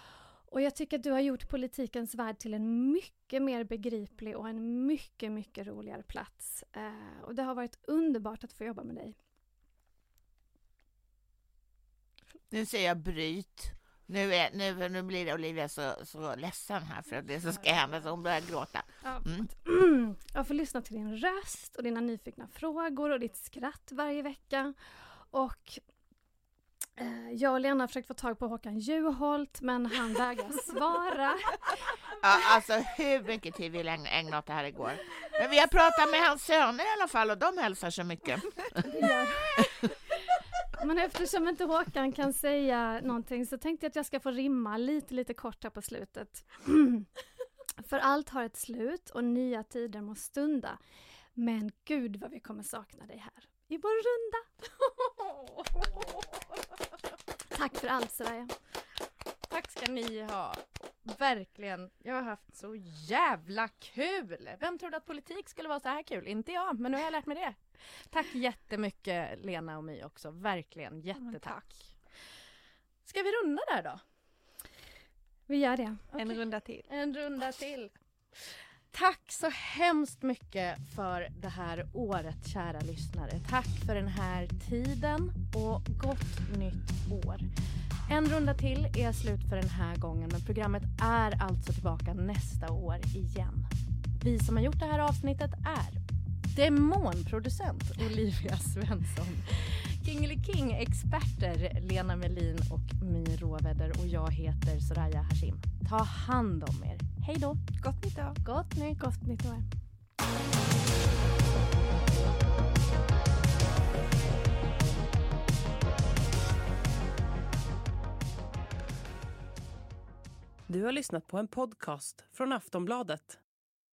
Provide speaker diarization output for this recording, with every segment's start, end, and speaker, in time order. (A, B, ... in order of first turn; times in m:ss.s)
0:00.5-0:09.2 A
0:12.5-0:19.5 B
0:19.0-0:24.8 A
0:25.3-0:25.8 A
0:27.0-0:31.8 A
0:32.2-0:38.9 B
0:38.9-0:39.9 A
0:40.8-0:47.1 A
0:47.8-0:50.8 A
0:51.4-0:54.5 A
0:54.8-0:56.2 C
0:57.5-0:58.5 A
0:59.5-1:11.6 C
1:11.2-1:11.9 D
1:13.0-1:14.0 C
1:15.5-1:16.1 A
1:16.1-1:16.9 D
1:16.9-1:17.9 C
1:18.9-1:27.4 C
1:28.1-1:47.6 C
1:47.8-1:48.4 D
1:48.4-1:49.0 C
1:49.0-1:49.7 A
2:00.7-2:03.4 E